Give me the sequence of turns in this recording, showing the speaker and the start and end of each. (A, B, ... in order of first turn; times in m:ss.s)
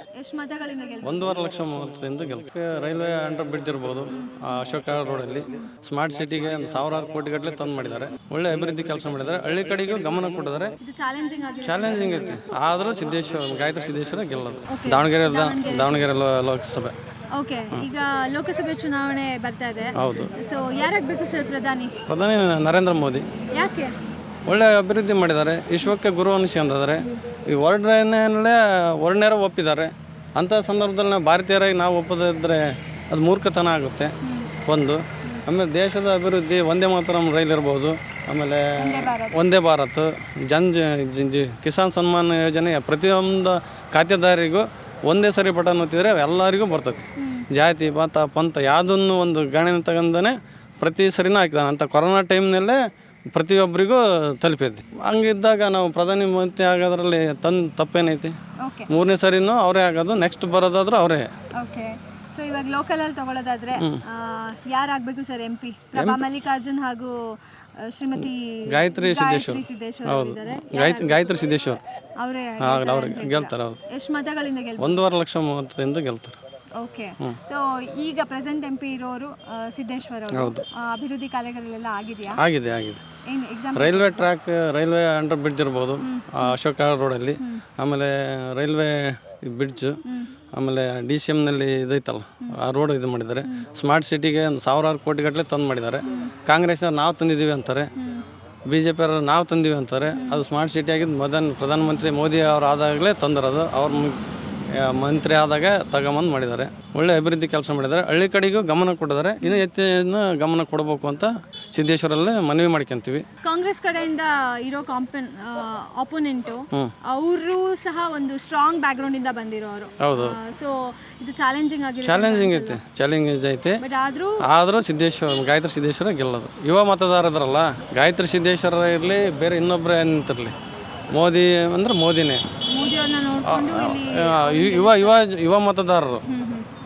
0:00.2-0:01.2 A
0:01.0-0:10.8 B
0:04.1-0:04.5 A
0:10.8-0:12.5 A
0:11.6-0:17.0 B
0:14.7-0:16.1 A
0:17.3-0:22.0 A
0:20.0-0:20.3 B
0:22.1-0:23.3 B
0:23.5-0:23.9 A
0:24.5-0:34.2 B
0:34.2-0:34.5 A
0:34.7-0:52.8 B
0:38.8-0:39.4 A
0:47.2-0:47.5 A
0:53.3-0:58.4 B
0:58.6-0:58.9 A
0:58.9-1:01.3 B
1:01.6-1:11.5 A
1:03.8-1:04.0 B
1:06.0-1:06.3 B
1:08.7-1:11.8 B
1:12.2-1:15.0 A
1:12.6-1:13.8 B
1:14.8-1:16.4 B
1:16.8-1:22.4 A
1:20.3-1:20.7 B
1:22.3-1:23.0 B
1:23.3-1:24.3 A
1:23.8-1:30.0 B
1:26.0-1:26.6 A
1:30.0-1:30.3 A
1:30.5-1:37.9 B
1:36.0-1:36.4 A
1:38.0-1:38.2 A
1:38.7-1:44.2 B
1:40.1-1:40.4 A
1:44.7-1:53.2 B
1:53.4-2:02.8 A
2:00.0-2:00.4 B
2:02.0-2:03.8 B
2:03.8-2:04.4 A
2:04.5-2:10.6 B
2:11.1-2:12.4 B
2:12.7-2:15.2 A
2:13.5-2:16.2 B
2:16.3-2:16.7 A